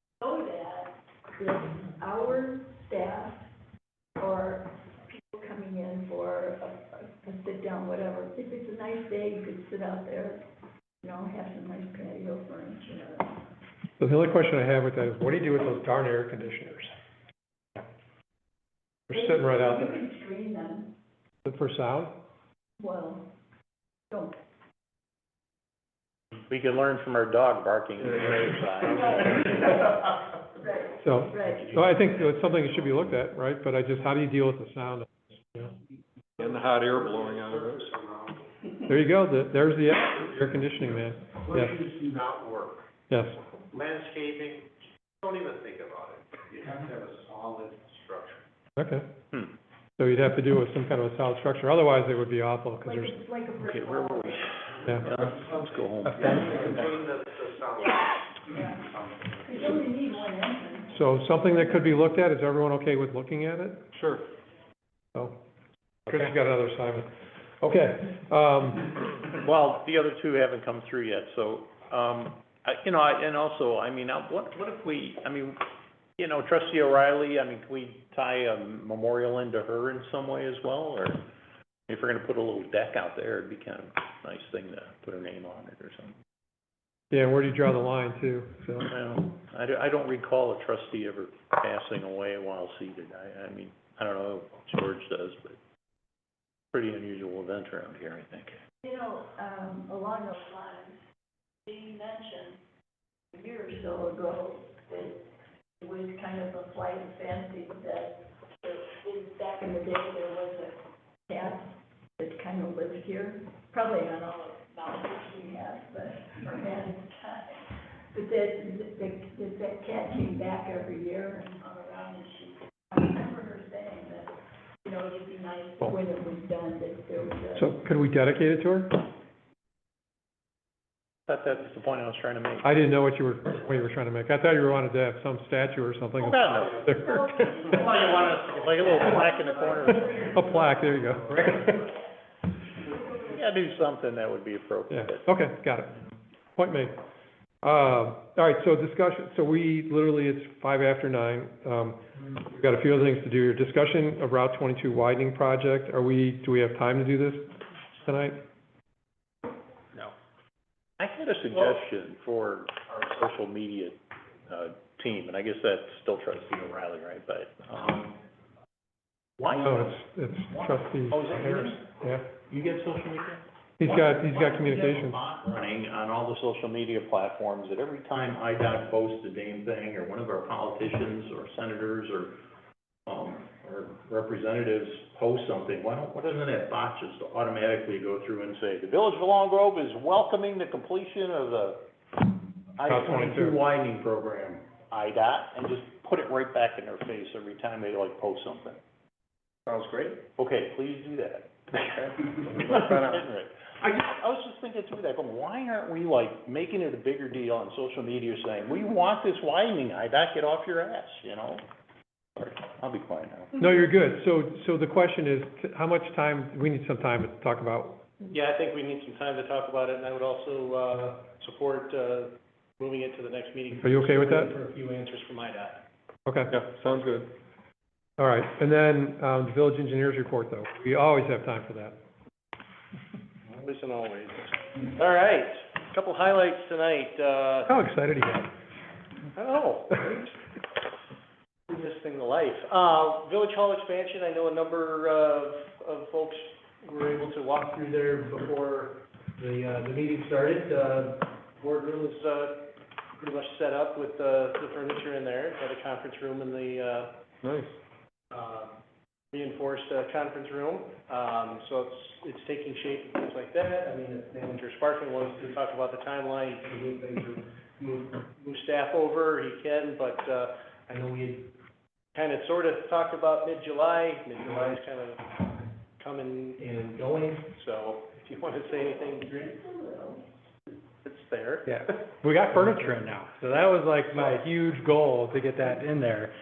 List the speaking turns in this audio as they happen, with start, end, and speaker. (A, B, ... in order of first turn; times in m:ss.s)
0:00.2-0:03.5 A
0:04.2-0:10.4 A
0:11.0-0:13.5 A
0:14.0-0:16.9 B
0:19.1-0:20.0 B
0:19.1-0:21.0 A
0:21.4-0:22.1 B
0:22.8-0:23.3 A
0:26.5-0:29.9 C
0:28.9-0:29.9 A
0:30.6-0:31.7 A
0:31.0-0:35.7 B
0:31.6-0:32.9 C
0:36.4-0:38.0 D
0:36.4-0:38.5 E
0:38.9-0:41.8 B
0:41.4-0:42.9 E
0:43.1-0:43.4 B
0:43.7-0:44.7 E
0:45.2-0:48.4 E
0:48.8-0:49.1 B
0:50.0-0:53.2 B
0:52.8-0:54.5 A
0:53.7-0:57.0 C
0:56.1-0:56.4 B
0:56.2-0:58.1 E
0:58.5-0:58.8 A
0:58.8-0:59.4 E
0:59.4-1:01.0 A
1:00.9-1:03.8 B
1:03.9-1:04.2 D
1:06.1-1:07.1 B
1:07.6-1:09.0 B
1:09.3-1:15.6 C
1:16.2-1:21.2 C
1:21.9-1:26.1 C
1:27.1-1:28.9 B
1:28.8-1:35.6 C
1:36.7-1:38.6 C
1:38.8-1:41.0 A
1:41.7-1:42.6 A
1:43.3-1:45.3 A
1:45.8-2:07.8 A
2:07.6-2:09.0 B
2:11.3-2:12.7 C
2:12.6-2:17.2 B
2:16.2-2:20.2 C
2:17.0-2:21.9 A
2:20.2-2:21.7 B
2:22.9-2:23.4 A
2:23.3-2:25.2 C
2:24.9-2:26.0 B
2:26.6-2:27.0 B
2:27.6-2:37.5 B
2:38.0-2:38.4 B
2:41.0-2:48.2 C
2:49.4-2:50.0 C
2:49.5-2:52.2 B
2:50.5-3:02.4 C
2:53.8-2:55.2 B
3:03.1-3:11.8 C
3:12.8-3:18.8 C
3:12.8-3:13.6 B
3:19.7-3:20.2 E
3:20.4-3:31.6 C
3:32.4-3:33.5 C
3:33.6-3:38.0 B
3:38.2-3:45.8 F
3:43.8-3:44.5 B
3:46.3-3:46.6 B
3:46.5-3:47.3 D
3:48.2-3:52.0 B
3:53.5-3:57.8 F
3:57.7-3:58.5 B
3:59.4-4:00.4 F
4:01.7-4:17.1 F
4:17.4-4:17.7 D
4:18.3-4:18.8 F
4:19.3-4:31.5 F
4:32.1-4:39.5 F
4:38.6-4:40.2 A
4:41.0-4:42.2 F
4:41.7-4:46.3 G